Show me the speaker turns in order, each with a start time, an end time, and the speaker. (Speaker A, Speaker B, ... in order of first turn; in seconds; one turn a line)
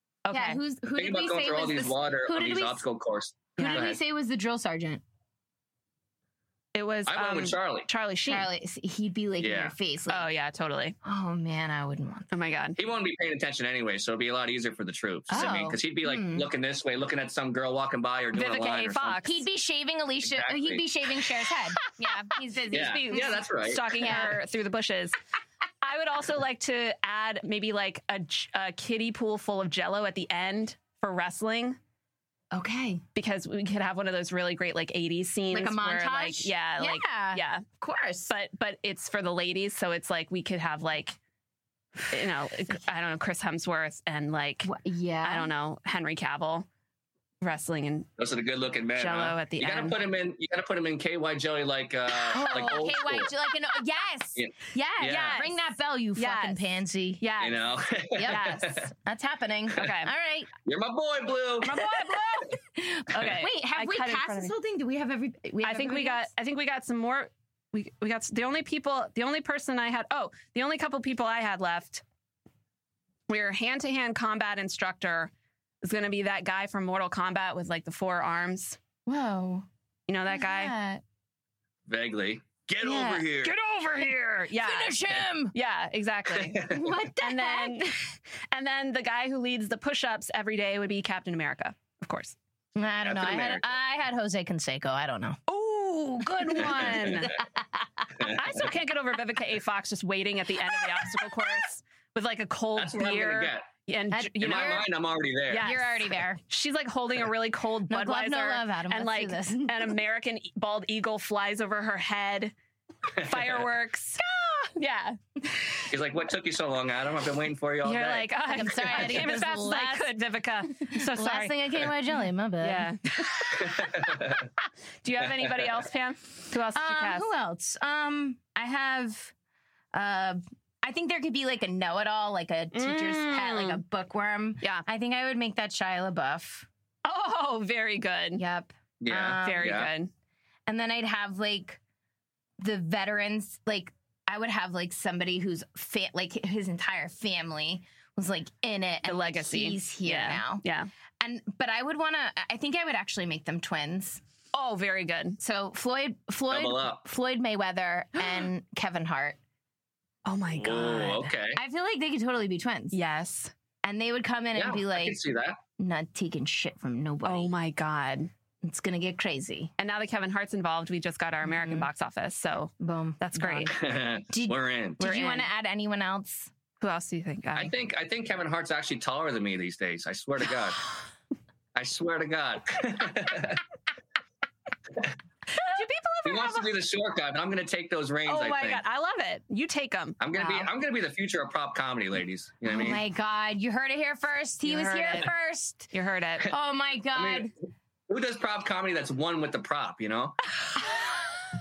Speaker A: 0.2-0.6
Speaker B: 0.3-2.8
Speaker C: 0.9-4.0
Speaker A: 3.6-3.9
Speaker B: 3.6-5.0
Speaker A: 6.8-8.5
Speaker C: 7.1-7.9
Speaker B: 8.3-10.3
Speaker C: 9.4-9.7
Speaker A: 10.1-11.0
Speaker B: 11.0-12.3
Speaker A: 12.3-12.8
Speaker C: 12.8-19.2
Speaker B: 15.3-16.5
Speaker A: 15.3-15.6
Speaker A: 18.3-19.4
Speaker B: 19.2-23.4
Speaker C: 20.2-20.9
Speaker C: 22.7-24.1
Speaker A: 22.7-25.2
Speaker B: 23.9-24.4
Speaker A: 25.8-31.8
Speaker B: 32.5-33.0
Speaker A: 33.2-37.6
Speaker B: 35.5-38.3
Speaker A: 38.3-41.2
Speaker A: 42.1-44.7
Speaker B: 44.6-45.5
Speaker A: 45.2-46.7
Speaker A: 47.4-48.1
Speaker C: 48.2-53.3
Speaker A: 49.0-50.0
Speaker B: 52.1-57.2
Speaker A: 52.5-52.8
Speaker C: 54.4-55.4
Speaker A: 55.0-55.6
Speaker A: 56.1-56.6
Speaker A: 57.2-57.6
Speaker C: 57.4-58.9
Speaker B: 58.1-60.5
Speaker A: 58.3-58.8
Speaker A: 59.8-60.1
Speaker C: 60.6-61.7
Speaker B: 61.6-66.3
Speaker A: 61.7-62.5
Speaker A: 63.1-64.5
Speaker A: 65.6-72.0
Speaker A: 73.3-75.3
Speaker A: 75.8-78.8
Speaker B: 79.1-79.7
Speaker A: 80.1-80.7
Speaker B: 80.3-81.0
Speaker C: 81.9-83.6
Speaker B: 82.8-83.3
Speaker A: 83.4-92.4
Speaker B: 84.5-85.5
Speaker C: 86.4-86.8
Speaker B: 86.7-88.0
Speaker B: 92.8-95.4
Speaker C: 93.0-93.7
Speaker A: 95.5-97.4
Speaker B: 96.4-96.9
Speaker C: 96.9-97.3
Speaker A: 98.2-104.9
Speaker C: 102.8-103.7
Speaker B: 104.1-104.9
Speaker C: 104.4-105.7
Speaker A: 105.5-112.5
Speaker B: 105.5-106.4
Speaker B: 107.9-109.9
Speaker C: 113.2-113.6
Speaker A: 113.2-114.2
Speaker B: 114.2-114.7
Speaker A: 114.8-115.9
Speaker C: 115.9-118.3
Speaker A: 117.8-121.9
Speaker B: 118.5-120.1
Speaker B: 120.7-124.1
Speaker A: 122.6-123.7
Speaker C: 123.6-124.5
Speaker A: 125.0-127.3
Speaker B: 126.7-129.3
Speaker B: 129.9-136.7
Speaker A: 132.7-133.8
Speaker A: 137.1-138.4
Speaker B: 138.4-139.9
Speaker C: 139.0-139.9
Speaker A: 139.4-140.1
Speaker B: 140.7-141.8
Speaker B: 142.6-150.6
Speaker A: 149.1-150.9
Speaker B: 151.2-154.2
Speaker A: 154.5-155.4
Speaker B: 155.4-159.4
Speaker C: 156.5-157.0
Speaker A: 160.3-161.3
Speaker C: 160.6-161.6
Speaker B: 161.6-163.0
Speaker A: 162.9-163.5
Speaker B: 163.8-165.2
Speaker C: 164.6-165.6
Speaker B: 165.8-167.5
Speaker A: 167.2-168.3
Speaker B: 168.6-169.7
Speaker A: 169.8-173.7
Speaker B: 171.4-171.9
Speaker B: 172.8-176.5
Speaker C: 173.7-175.0
Speaker A: 175.0-175.5
Speaker A: 176.8-177.7
Speaker C: 177.6-180.8
Speaker C: 181.8-183.6
Speaker A: 185.6-186.6
Speaker B: 185.8-186.6
Speaker C: 186.2-188.8
Speaker A: 188.3-190.2
Speaker C: 190.2-193.0
Speaker B: 190.3-190.7
Speaker B: 192.7-195.9
Speaker A: 194.7-195.3
Speaker A: 195.9-196.5
Speaker B: 196.4-197.5
Speaker C: 197.2-197.5
Speaker C: 198.1-200.4
Speaker B: 200.8-201.4